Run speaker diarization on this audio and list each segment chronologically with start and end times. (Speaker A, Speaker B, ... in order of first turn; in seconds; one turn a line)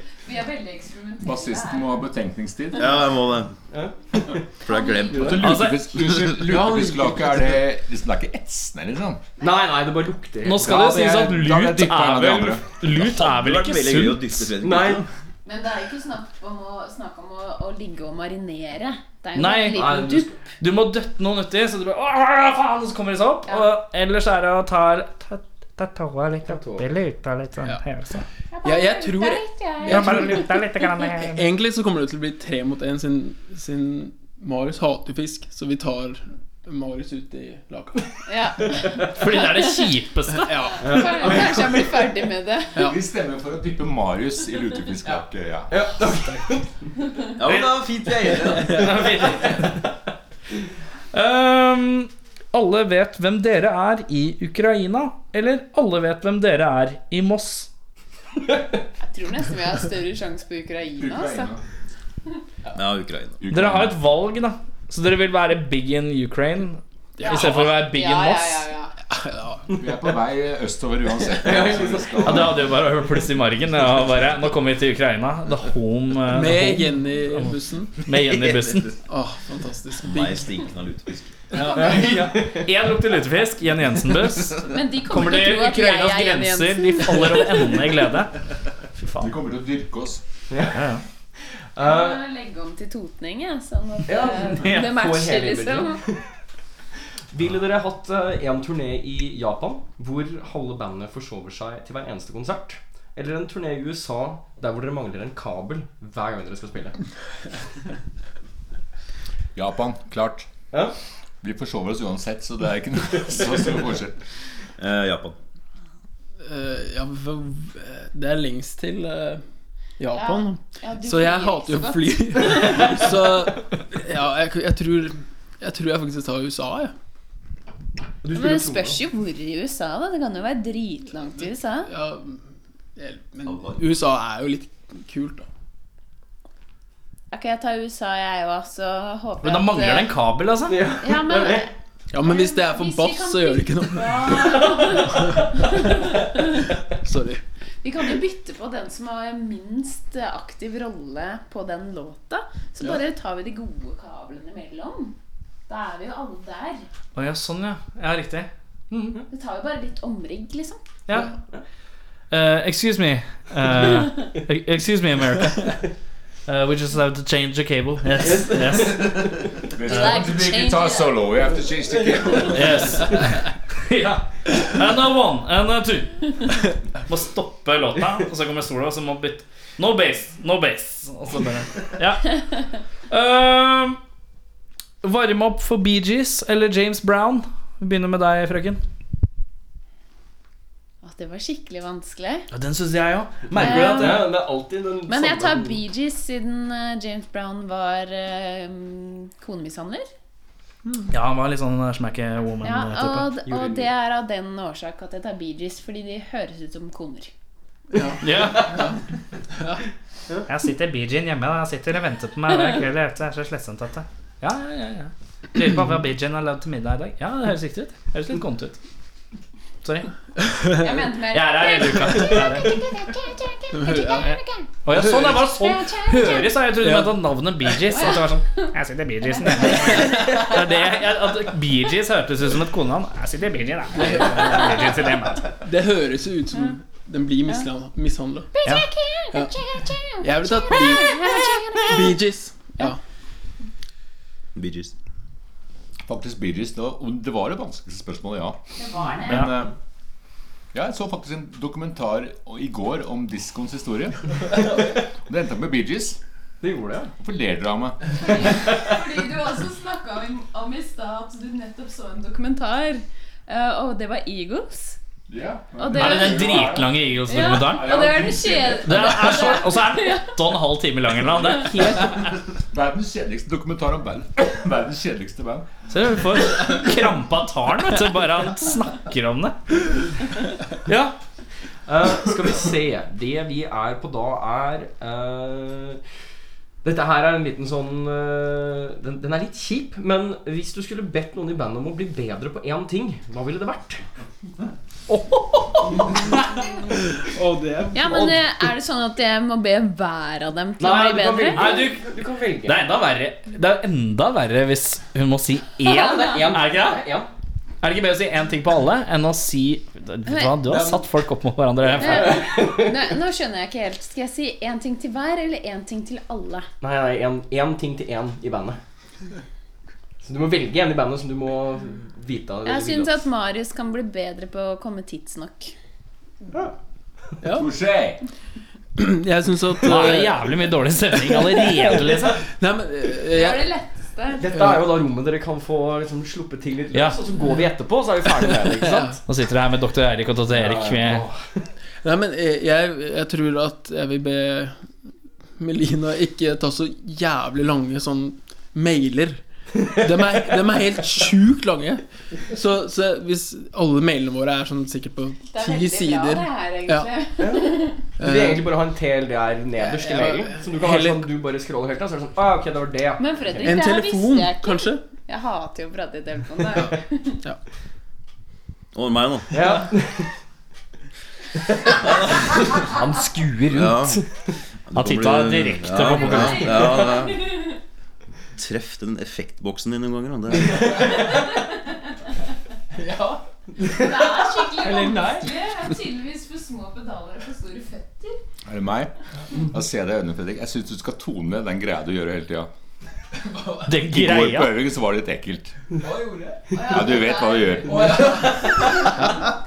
Speaker A: 0.2-2.0
Speaker B: 1.2-3.0
Speaker C: 2.8-3.5
Speaker D: 3.7-4.3
Speaker C: 4.6-5.4
Speaker D: 5.1-5.4
Speaker B: 5.1-9.2
Speaker E: 5.4-5.8
Speaker F: 6.4-7.6
Speaker D: 9.4-11.3
Speaker E: 10.4-14.5
Speaker B: 10.7-12.7
Speaker C: 12.8-15.1
Speaker D: 14.6-15.0
Speaker A: 15.4-20.3
Speaker E: 19.3-20.0
Speaker D: 19.7-20.3
Speaker E: 20.6-28.2
Speaker D: 26.4-26.9
Speaker A: 28.5-30.4
Speaker F: 28.6-30.6
Speaker E: 29.9-31.5
Speaker F: 31.1-38.1
Speaker A: 38.3-39.4
Speaker E: 39.1-40.6
Speaker F: 40.3-41.5
Speaker D: 40.8-41.3
Speaker A: 40.8-42.8
Speaker B: 42.8-45.7
Speaker D: 45.7-46.7
Speaker C: 47.4-48.9
Speaker E: 48.7-49.8
Speaker E: 51.1-57.7
Speaker A: 59.0-61.5
Speaker B: 61.0-61.6
Speaker C: 62.7-63.4
Speaker B: 63.4-64.0
Speaker E: 63.5-68.7
Speaker A: 67.2-68.9
Speaker F: 69.0-69.8
Speaker B: 69.7-72.6
Speaker D: 71.4-72.5
Speaker E: 72.2-78.9
Speaker F: 76.3-78.0
Speaker C: 78.2-78.9
Speaker F: 79.0-80.5
Speaker C: 80.0-81.4
Speaker F: 81.5-82.0
Speaker E: 81.7-88.3
Speaker D: 81.8-82.3
Speaker A: 84.6-87.8
Speaker E: 88.9-89.3
Speaker B: 89.2-90.2
Speaker D: 90.5-90.8
Speaker E: 90.7-91.0
Speaker D: 91.8-92.2
Speaker A: 91.8-96.0
Speaker D: 94.0-96.2
Speaker D: 97.3-107.0
Speaker B: 109.5-110.5
Speaker B: 111.4-114.2
Speaker C: 114.8-115.4
Speaker F: 116.4-119.4
Speaker F: 120.0-126.9
Speaker A: 120.1-123.1
Speaker D: 128.2-129.0
Speaker A: 128.3-131.9
Speaker F: 131.8-132.4
Speaker F: 132.9-135.4
Speaker A: 137.3-140.2
Speaker E: 139.4-140.8
Speaker D: 140.7-141.7
Speaker A: 141.0-141.7
Speaker F: 142.1-145.6
Speaker A: 142.2-146.6
Speaker F: 146.9-147.4
Speaker A: 147.8-155.2
Speaker A: 155.7-156.8
Speaker E: 157.1-159.1
Speaker D: 158.9-159.2
Speaker A: 159.3-160.8
Speaker E: 161.1-161.3
Speaker E: 162.3-165.8
Speaker E: 166.5-169.2
Speaker D: 168.2-169.2
Speaker B: 169.6-172.8
Speaker A: 169.8-171.3
Speaker E: 172.5-182.4
Speaker E: 183.1-184.0
Speaker E: 185.0-188.8
Speaker A: 191.0-192.5
Speaker E: 192.5-194.3
Speaker D: 193.5-195.8
Speaker A: 193.6-194.3
Speaker A: 195.1-200.1
Speaker E: 201.1-203.3
Speaker A: 202.6-207.3
Speaker D: 203.4-203.9
Speaker F: 207.9-209.0
Speaker E: 208.2-208.8
Speaker F: 209.6-209.8
Speaker E: 210.5-218.8
Speaker E: 219.8-220.1
Speaker F: 220.4-220.8
Speaker A: 220.7-226.7
Speaker E: 221.3-222.8
Speaker F: 223.8-224.2
Speaker E: 224.2-235.5
Speaker F: 224.9-225.4
Speaker F: 226.8-227.2
Speaker A: 227.9-228.7
Speaker A: 229.3-230.6
Speaker F: 233.9-234.7
Speaker F: 235.6-238.5
Speaker A: 238.5-242.2
Speaker F: 240.2-243.0
Speaker C: 244.5-244.9
Speaker B: 246.1-248.6
Speaker A: 248.8-249.5
Speaker B: 249.2-249.7
Speaker B: 250.7-254.3
Speaker B: 255.2-256.2
Speaker D: 256.6-257.1
Speaker B: 257.2-258.4
Speaker A: 258.2-265.0
Speaker B: 265.3-269.2
Speaker A: 265.8-270.4
Speaker E: 265.9-268.1
Speaker E: 268.8-272.3
Speaker B: 272.7-275.7
Speaker E: 275.9-279.7
Speaker E: 280.9-281.1
Speaker D: 281.9-286.0
Speaker D: 286.8-294.0
Speaker E: 295.1-296.4
Speaker F: 297.2-298.3
Speaker A: 297.9-301.9
Speaker D: 300.8-302.8
Speaker E: 301.5-302.0
Speaker E: 302.6-307.0
Speaker A: 305.9-306.4
Speaker D: 305.9-307.3
Speaker E: 307.8-312.4
Speaker A: 310.2-310.8
Speaker D: 311.8-313.1
Speaker A: 312.0-316.7
Speaker D: 316.8-318.8
Speaker D: 320.2-323.2
Speaker A: 322.6-325.7
Speaker F: 327.4-327.7
Speaker B: 327.5-328.2
Speaker F: 328.9-330.5
Speaker E: 329.8-332.4
Speaker F: 331.5-333.7
Speaker A: 333.2-334.5
Speaker D: 334.4-339.2
Speaker F: 334.5-334.8
Speaker F: 338.8-339.2
Speaker E: 339.2-341.2
Speaker D: 340.5-341.6
Speaker F: 342.0-344.8
Speaker F: 345.6-357.1
Speaker A: 355.5-358.1
Speaker D: 357.4-363.8
Speaker F: 358.2-358.7
Speaker F: 360.0-361.3
Speaker A: 363.2-367.4
Speaker F: 363.6-365.0
Speaker C: 368.9-369.6
Speaker D: 369.5-370.3
Speaker D: 371.6-372.0
Speaker D: 372.5-374.3
Speaker C: 373.7-374.2
Speaker C: 374.9-377.4
Speaker E: 374.9-376.8
Speaker A: 376.3-377.8
Speaker C: 378.5-380.8
Speaker F: 382.9-383.4
Speaker A: 383.9-388.4
Speaker F: 384.8-385.5
Speaker B: 388.7-392.7
Speaker F: 393.4-393.9
Speaker E: 393.9-394.7
Speaker B: 394.0-395.8
Speaker F: 395.9-396.8
Speaker A: 396.7-397.9
Speaker B: 396.9-398.1
Speaker F: 397.9-399.1